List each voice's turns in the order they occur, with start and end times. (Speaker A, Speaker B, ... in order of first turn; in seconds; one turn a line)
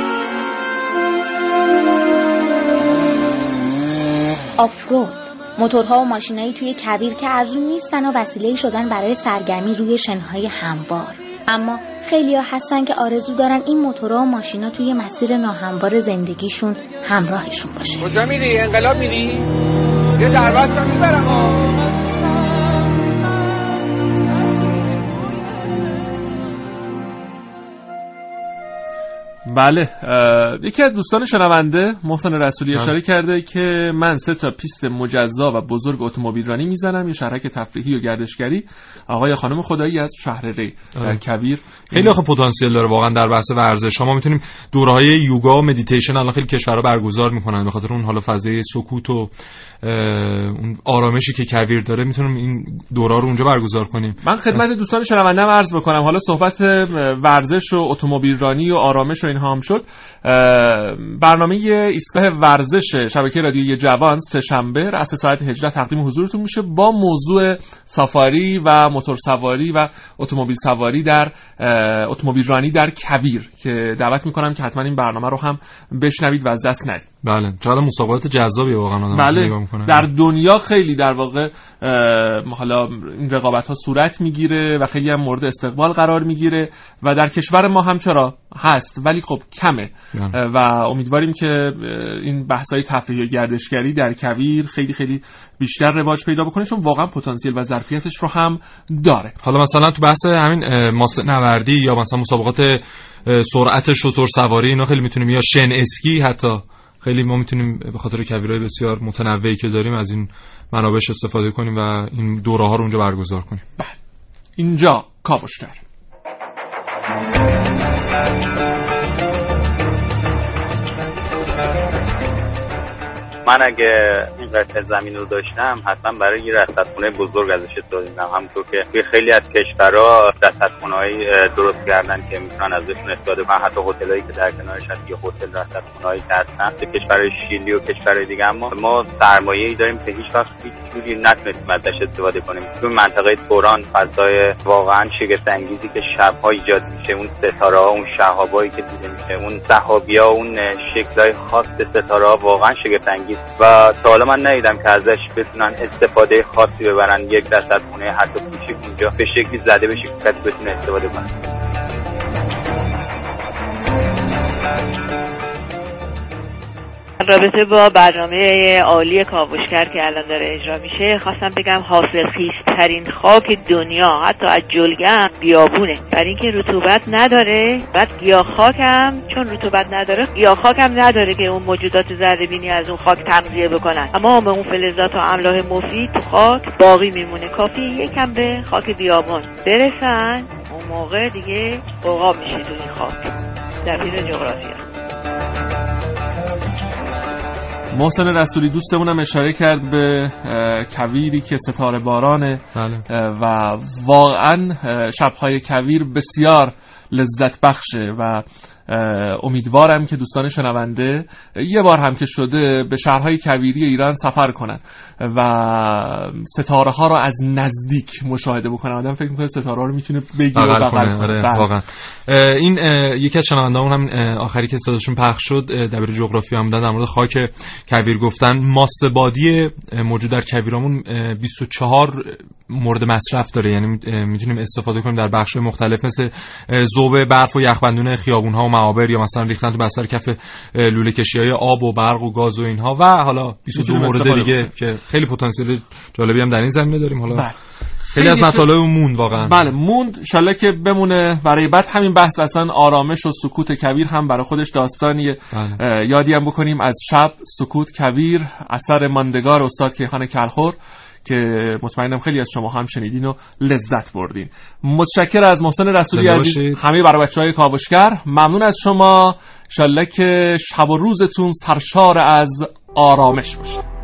Speaker A: 4.6-18.1
Speaker B: 18.0-19.5
Speaker B: 20.2-21.6
Speaker C: 29.5-42.1
Speaker D: 41.9-54.6
Speaker C: 54.2-77.1
Speaker D: 77.2-80.0
Speaker C: 79.1-99.4
Speaker D: 99.4-113.6
Speaker C: 114.6-115.8
Speaker E: 123.5-161.3
Speaker F: 167.2-193.3
Speaker F: 193.8-194.8
Speaker C: 197.9-221.7
Speaker D: 202.8-203.1
Speaker D: 220.5-247.5
Speaker C: 243.7-244.7
Speaker C: 247.3-247.6
Speaker C: 248.1-248.7
Speaker D: 248.2-249.7
Speaker C: 249.4-273.8
Speaker D: 255.5-255.8
Speaker D: 266.1-266.8